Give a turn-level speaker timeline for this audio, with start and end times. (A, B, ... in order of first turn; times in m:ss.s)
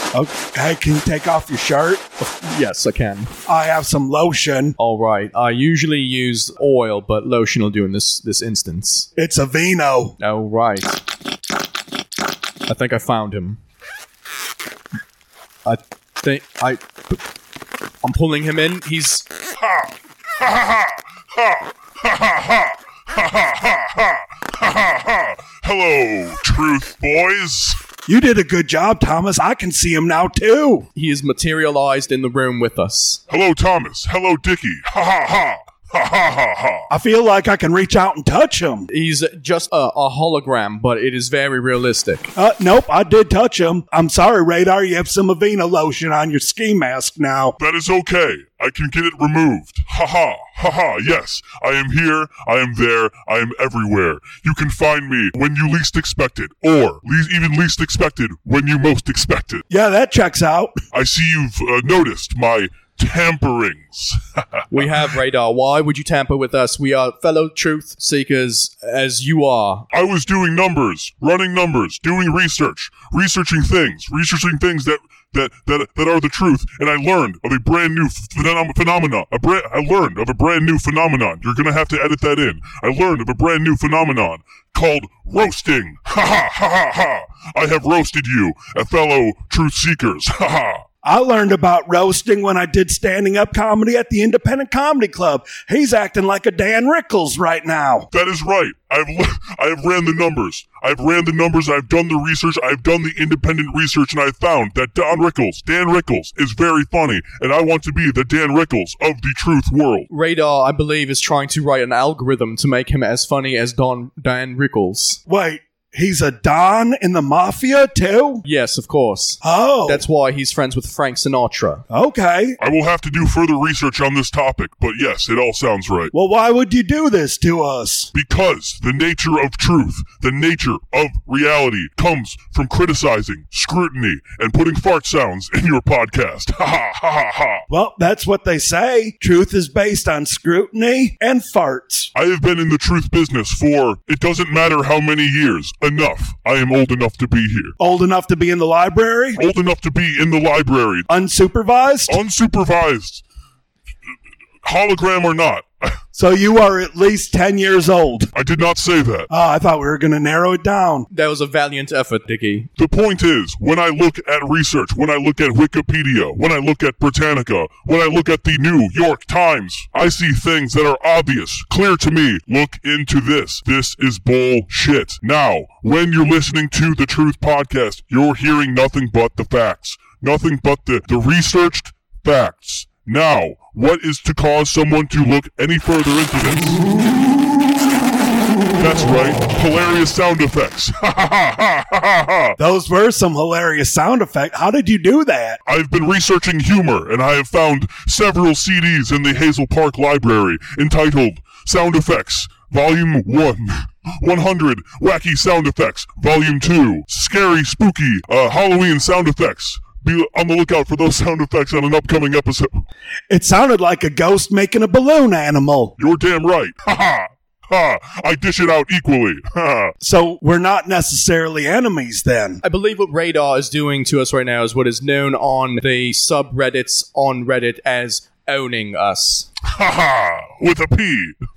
0:00.1-0:02.0 A
0:02.2-0:03.3 B
0:03.4-0:04.8 A
0:04.8-0:09.1 B
0:09.2-0:10.2 A
0:10.2-0:11.0 B
0:12.7-0:13.6 B
0:15.6-0:17.2 B
0:18.0-0:19.2 B
0:19.6-0:27.8 C
0:28.1-0:30.9 A
0:30.9-0:33.2 B
0:33.3-0:36.9 C
0:36.9-0:38.9 A
0:38.9-0:42.3 B
0:42.3-0:47.6 A
0:47.6-0:59.6 C
0:59.7-1:00.8 A
1:00.9-1:04.2 C
1:04.7-1:09.9 B
1:09.9-1:30.8 C
1:31.0-1:38.1 A
1:38.1-1:50.1 C
1:50.1-1:55.2 B
1:55.3-1:58.4 A
1:58.4-2:01.8 B
1:59.4-2:00.0 A
2:01.9-2:02.6 A
2:02.6-2:06.1 C
2:06.1-2:08.1 A
2:08.1-2:17.6 C
2:17.7-2:22.1 A
2:22.1-2:27.8 C
2:27.8-2:29.4 A
2:29.4-2:31.1 C
2:31.1-2:32.2 A
2:32.1-2:33.2 C
2:34.6-2:35.9 C
2:36.1-2:38.3 A
2:38.3-2:39.3 C
2:39.3-2:41.1 A
2:41.1-2:42.7 B
2:42.8-3:06.8 C
3:08.8-3:12.6 C
3:12.6-3:15.6 A
3:15.6-3:32.8 C
3:33.3-3:35.9 A
3:36.0-3:39.9 C
3:40.0-3:42.6 A
3:42.6-3:49.5 B
3:49.7-3:51.4 C